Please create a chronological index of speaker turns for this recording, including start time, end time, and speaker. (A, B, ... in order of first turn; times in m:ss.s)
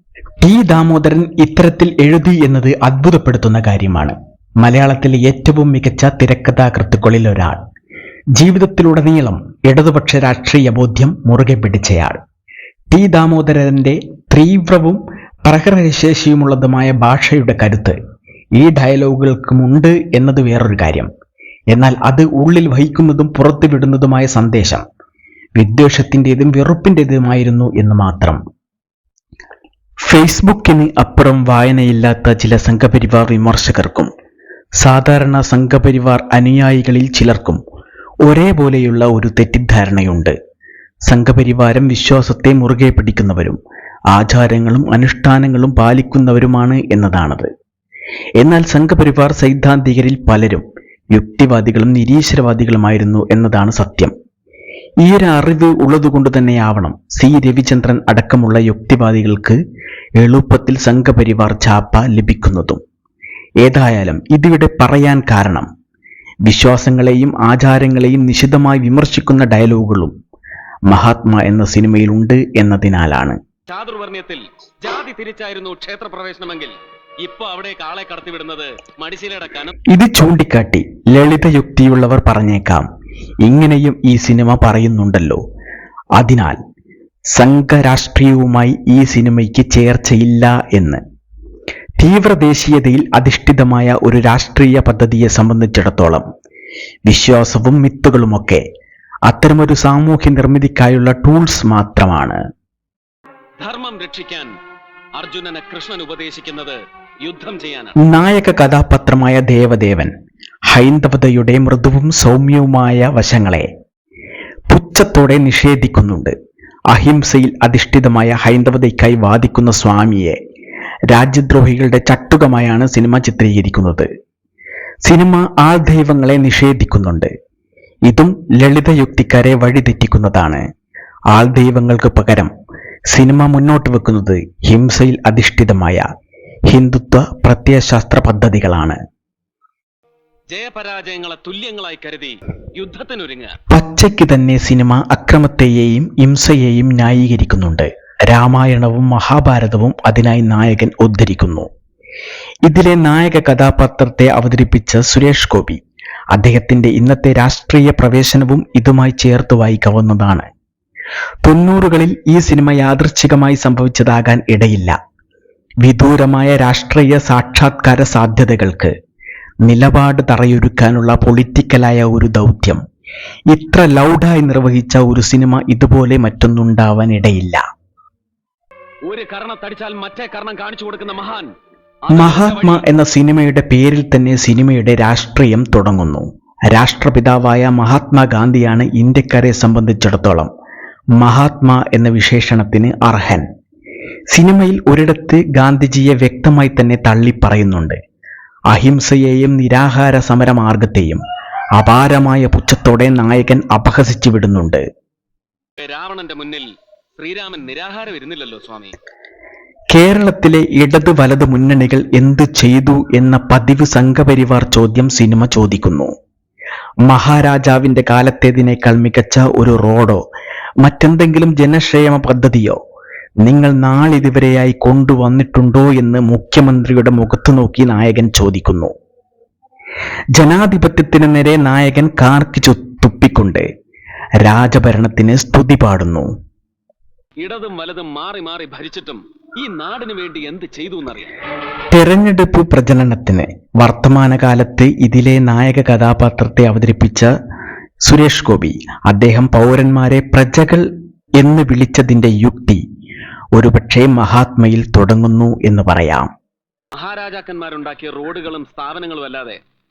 0:00.4-0:07.6 A
0:08.4-0:12.2 A
0:12.9-0:18.0 A
0:18.6-0:21.1 A
0:21.7-0:24.8 A
0:25.6-0:28.4 A
0:30.0-0:34.1 A
0:34.8-0:37.6 A
0:38.2-0:40.4 A
0:41.1-0:43.6 A
0:44.1-0:47.5 A
0:48.4-0:54.1 A
0:55.0-0:59.6 A
1:00.2-1:02.8 A
1:03.6-1:05.7 A
1:06.5-1:10.1 A
1:10.9-1:13.4 A
1:13.7-1:19.8 B
1:19.9-1:22.8 A
1:23.4-1:25.4 A
1:26.2-1:26.6 A
1:27.4-1:31.0 A
1:32.0-1:36.2 A
1:37.1-1:38.6 A
1:39.3-1:42.4 A
1:43.6-1:44.5 B
1:45.2-1:48.0 B
1:48.0-1:50.1 A
1:50.7-1:53.7 A
1:54.7-1:56.3 A
1:56.9-2:00.4 A
2:01.1-2:04.1 A
2:05.0-2:07.3 A
2:08.1-2:10.6 A
2:11.3-2:12.5 A
2:13.1-2:16.0 A
2:16.7-2:19.0 A
2:20.5-2:23.6 B
2:23.7-2:31.7 A
2:32.7-2:35.8 A
2:36.3-2:40.5 A
2:41.4-2:45.0 A
2:45.8-2:48.9 A
2:49.6-2:52.8 A
2:53.5-2:57.6 A
2:59.1-3:01.5 B
3:02.0-3:02.8 B
3:02.1-3:10.5 A
3:11.2-3:13.5 A
3:14.3-3:18.0 A
3:18.7-3:21.2 A
3:21.8-3:24.8 A
3:25.8-3:26.7 B
3:27.2-3:29.0 B
3:29.9-3:36.1 A
3:37.1-3:40.2 A
3:40.8-3:42.8 A
3:43.4-3:48.9 A
3:50.3-3:53.6 A
3:54.4-3:56.3 A
3:57.4-4:01.3 B
4:01.9-4:07.3 A
4:08.0-4:10.9 A
4:11.4-4:12.8 A
4:13.6-4:16.3 A
4:17.0-4:19.6 B